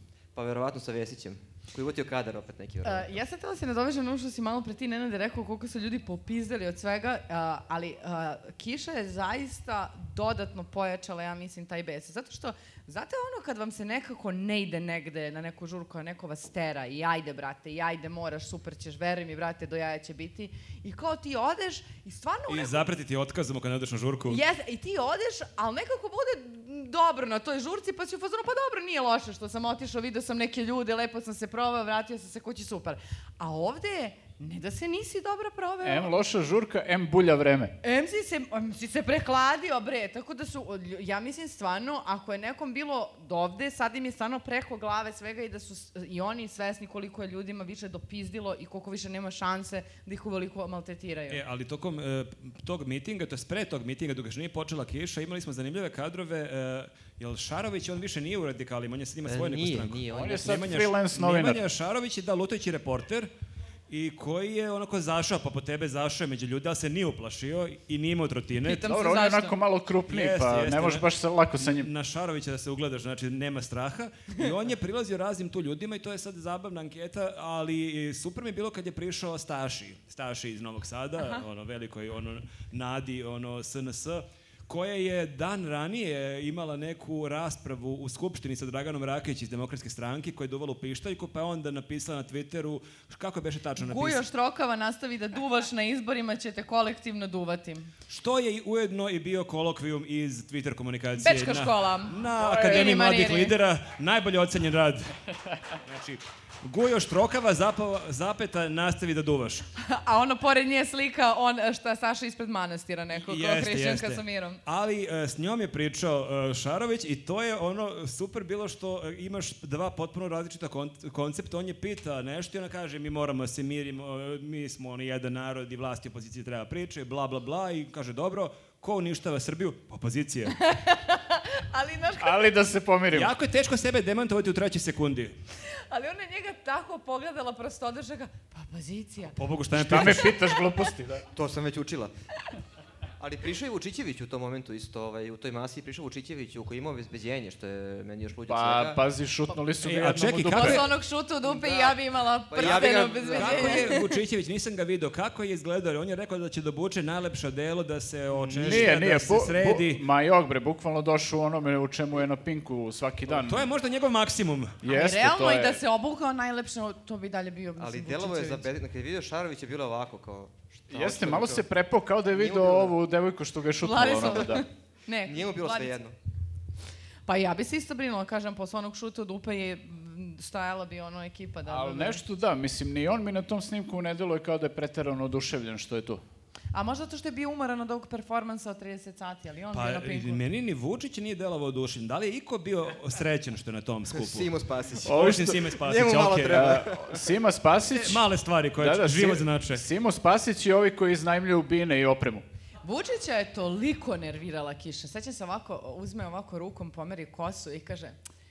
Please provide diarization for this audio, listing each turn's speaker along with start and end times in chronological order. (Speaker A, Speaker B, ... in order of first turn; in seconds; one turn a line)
Speaker A: 0.3-3.1
Speaker B: 2.8-22.9
Speaker C: 22.5-24.4
Speaker B: 24.3-36.1
Speaker D: 35.8-37.7
Speaker B: 37.8-51.4
Speaker C: 51.3-63.3
Speaker A: 59.2-60.7
Speaker D: 60.1-61.6
Speaker C: 63.9-68.9
Speaker B: 68.6-69.6
Speaker D: 68.7-71.9
Speaker C: 70.1-71.0
Speaker C: 71.6-94.2
Speaker B: 93.8-97.9
Speaker C: 98.1-105.1
Speaker B: 101.2-103.5
Speaker D: 102.4-102.9
Speaker C: 105.8-109.6
Speaker B: 109.8-114.6
Speaker C: 113.1-130.6
Speaker B: 130.6-132.5
Speaker D: 132.2-133.3
Speaker C: 133.1-135.3
Speaker B: 135.9-139.3
Speaker C: 139.3-140.3
Speaker D: 139.7-141.2
Speaker B: 140.2-140.6
Speaker A: 141.3-142.1
Speaker A: 143.2-149.0
Speaker D: 148.5-150.9
Speaker C: 149.8-150.8
Speaker B: 150.5-154.1
Speaker A: 151.4-154.0
Speaker C: 152.6-160.0
Speaker A: 158.3-158.9
Speaker D: 158.6-163.7
Speaker C: 163.3-164.8
Speaker D: 164.8-165.8
Speaker B: 164.8-168.7
Speaker A: 167.8-171.6
Speaker D: 170.9-174.6
Speaker A: 172.3-172.9
Speaker B: 173.8-175.9
Speaker A: 175.2-176.1
Speaker B: 177.3-182.2
Speaker D: 181.7-186.2
Speaker B: 186.7-190.4
Speaker C: 189.7-194.5
Speaker A: 194.1-197.2
Speaker D: 195.0-195.6
Speaker C: 195.0-196.8
Speaker D: 196.4-198.2
Speaker C: 197.9-199.8
Speaker D: 198.8-202.4
Speaker B: 202.8-208.2